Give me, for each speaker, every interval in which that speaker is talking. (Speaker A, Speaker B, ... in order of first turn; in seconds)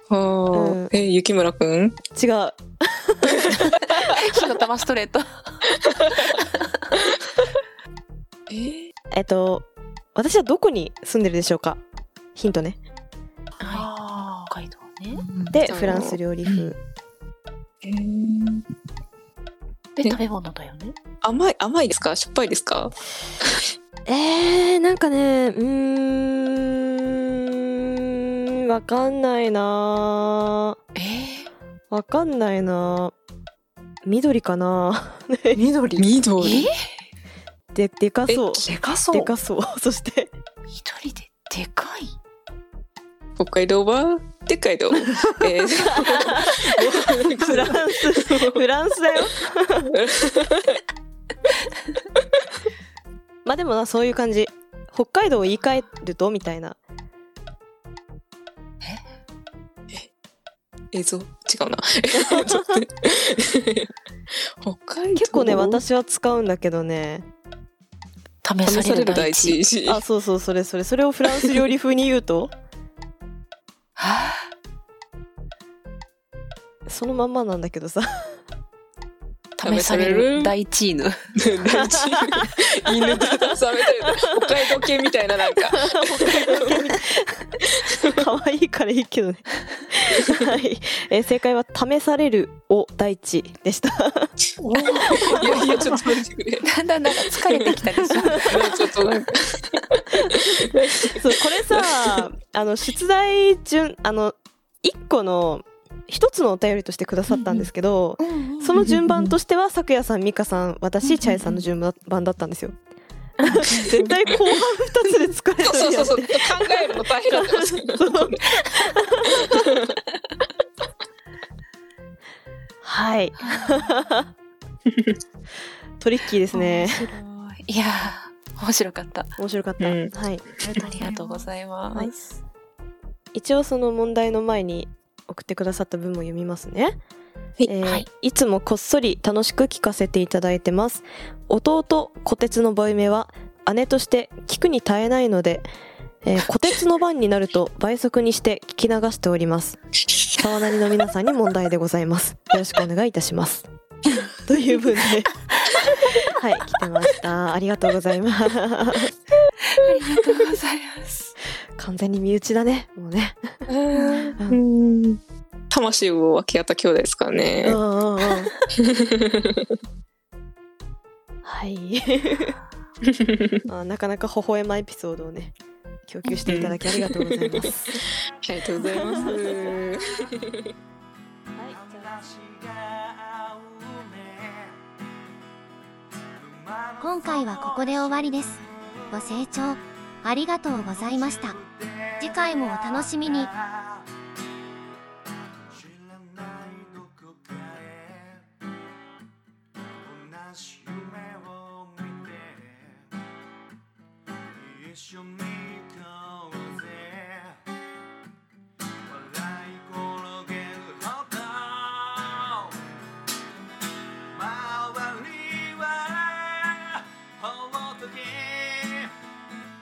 Speaker A: 0.1-2.0, 6.0-6.4, 8.5-8.9, 15.7-16.2, 17.8-18.7, 21.2-23.7, 36.0-36.7, 38.3-38.6, 43.4-48.6, 49.9-50.8, 60.9-63.9, 64.6-65.8, 68.7-70.0, 79.6-80.5, 81.4-86.9, 87.8-88.2, 94.8-102.2, 113.6-114.6, 115.6-118.6, 119.4-120.0, 124.9-125.2, 129.8-130.1, 163.7-165.2, 165.7-167.8, 168.8-169.8, 173.1-173.7, 176.5-180.7
Speaker B: 0.5-0.9, 2.1-4.1, 9.1-11.8, 12.3-12.8, 15.5-16.8, 24.1-30.8, 31.9-33.1, 34.0-35.6, 37.7-40.3, 45.9-50.0, 53.5-56.8, 62.1-62.8, 65.2-67.2, 69.8-72.5, 76.9-78.4, 81.7-82.5, 83.1-83.5, 84.1-84.7, 85.7-87.5, 88.1-94.3, 100.3-112.8, 113.5-119.7, 122.8-124.3, 126.0-127.1, 129.4-130.4, 133.3-137.0, 137.7-145.6, 146.2-149.8, 150.4-153.7, 154.5-159.1, 161.8-163.6, 167.6-168.5, 171.4-172.6, 173.7-175.6, 176.1-178.0
Speaker C: 4.0-5.3, 13.6-15.2, 20.0-21.0, 30.9-31.5, 36.4-36.8, 40.7-42.1, 68.4-69.6, 74.0-74.5, 79.6-81.2, 96.6-99.2, 108.3-109.1, 111.3-111.5, 113.5-113.9, 123.5-123.7, 126.5-129.3, 130.8-132.4, 159.7-161.3, 163.9-164.4, 176.3-176.6
Speaker D: 15.2-15.6, 16.5-16.7, 35.5-36.1, 38.6-39.3, 94.6-96.2, 108.8-109.1, 130.6-131.5
Speaker E: 181.6-184.8, 186.4-188.3, 191.2-194.1, 195.7-198.5, 200.0-203.1, 204.5-207.6, 209.1-212.8, 214.3-219.1
Speaker F: 187.0-191.6, 192.2-193.5